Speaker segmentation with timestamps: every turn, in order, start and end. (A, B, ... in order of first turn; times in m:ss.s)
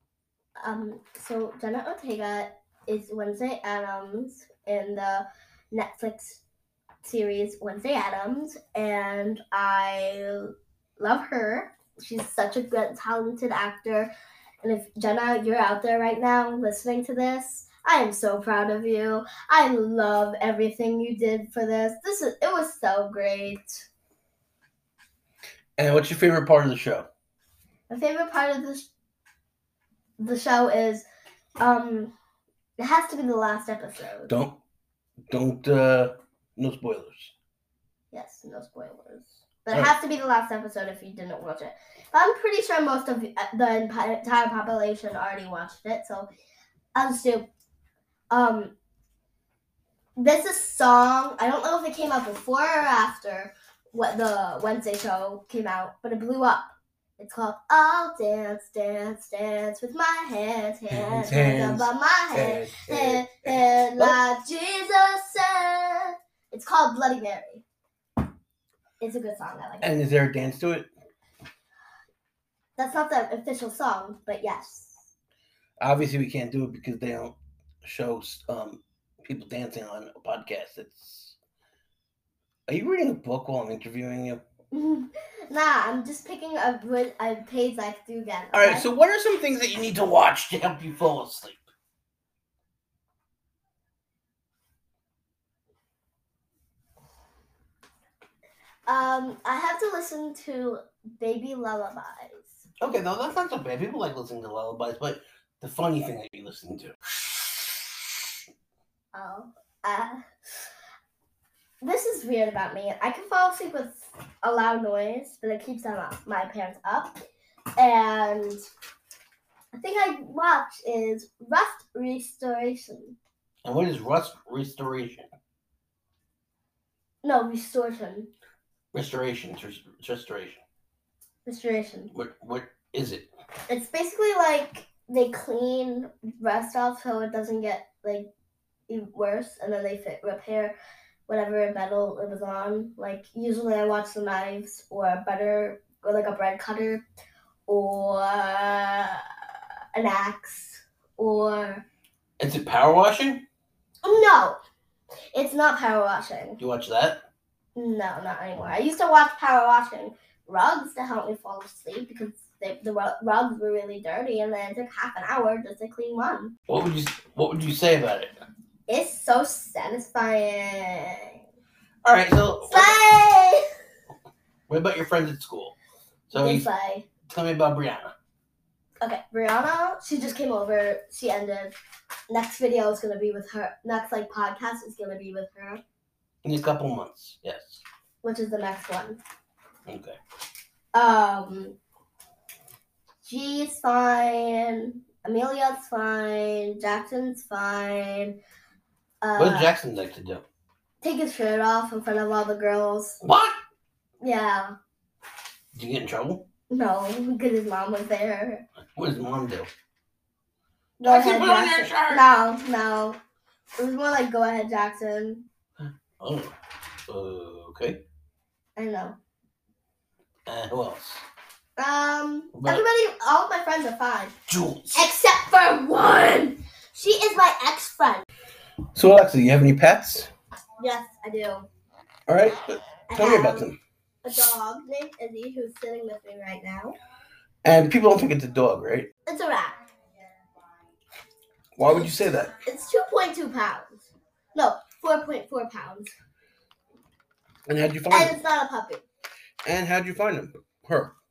0:00.6-0:06.4 A
0:07.0-0:23.9 A
0:25.8-0:27.1 B
0:27.9-0:28.9 A
0:30.2-0:31.1 A
0:31.6-0:32.1 A
0:32.8-0:34.3 A
0:34.3-0:34.6 B
0:35.3-0:37.3 B
0:38.1-0:46.3 A
0:47.0-0:47.5 A
0:48.3-0:48.7 A
0:50.2-1:07.6 A
1:00.9-1:04.2 B
1:09.0-1:09.9 A
1:09.8-1:10.9 B
1:12.8-1:15.1 A
1:15.8-1:21.4 B
1:22.7-1:24.4 B
1:24.7-1:28.9 A
1:28.5-1:31.6 B
1:38.9-1:42.6 A
1:42.8-1:47.0 B
1:49.1-1:50.2 A
1:51.8-1:57.2 A
1:57.8-1:58.6 A
1:59.7-2:03.2 A
2:03.6-2:05.3 B
2:07.2-2:08.3 A
2:08.9-2:10.6 B
2:11.5-2:12.1 A
2:12.1-2:13.3 B
2:13.7-2:18.3 A
2:18.9-2:20.8 A
2:21.3-2:27.0 A
2:27.7-2:29.3 A
2:30.0-2:31.8 A
2:32.4-2:33.4 B
2:34.0-2:34.6 A
2:35.3-2:36.6 A
2:36.6-2:37.2 B
2:37.8-2:46.5 A
2:46.7-2:48.4 B
2:48.9-2:51.4 A
2:52.0-2:53.0 B
2:52.7-2:53.6 A
2:54.7-2:55.8 B
2:56.3-2:56.7 B
2:56.3-2:57.1 A
2:57.3-2:58.1 B
2:59.0-3:01.8 A
3:02.3-3:05.8 A
3:06.4-3:07.8 B
3:08.2-3:09.2 A
3:09.9-3:10.2 B
3:10.9-3:11.8 A
3:13.2-3:18.4 A
3:19.2-3:19.7 A
3:19.4-3:20.4 B
3:21.0-3:23.2 A
3:23.2-3:23.6 B
3:24.2-3:24.8 A
3:25.7-3:26.5 B
3:26.7-3:28.6 A
3:29.0-3:29.7 B
3:31.0-3:33.2 A
3:31.0-3:32.3 B
3:33.8-3:35.5 A
3:35.8-3:36.6 B
3:37.1-3:38.0 B
3:38.8-3:39.2 A
3:40.5-3:41.2 B
3:41.8-3:44.4 A
3:42.5-3:42.8 B
3:44.5-3:45.1 B
3:44.9-3:48.2 A
3:49.0-3:50.3 B
3:50.8-3:51.7 A
3:52.3-3:53.8 B
3:53.1-3:53.7 A
3:54.2-3:57.0 A
3:57.6-3:59.1 B
3:59.3-3:59.8 A
4:01.8-4:02.5 B
4:02.6-4:06.1 A
4:07.7-4:08.4 B
4:08.1-4:09.0 A
4:09.6-4:11.1 B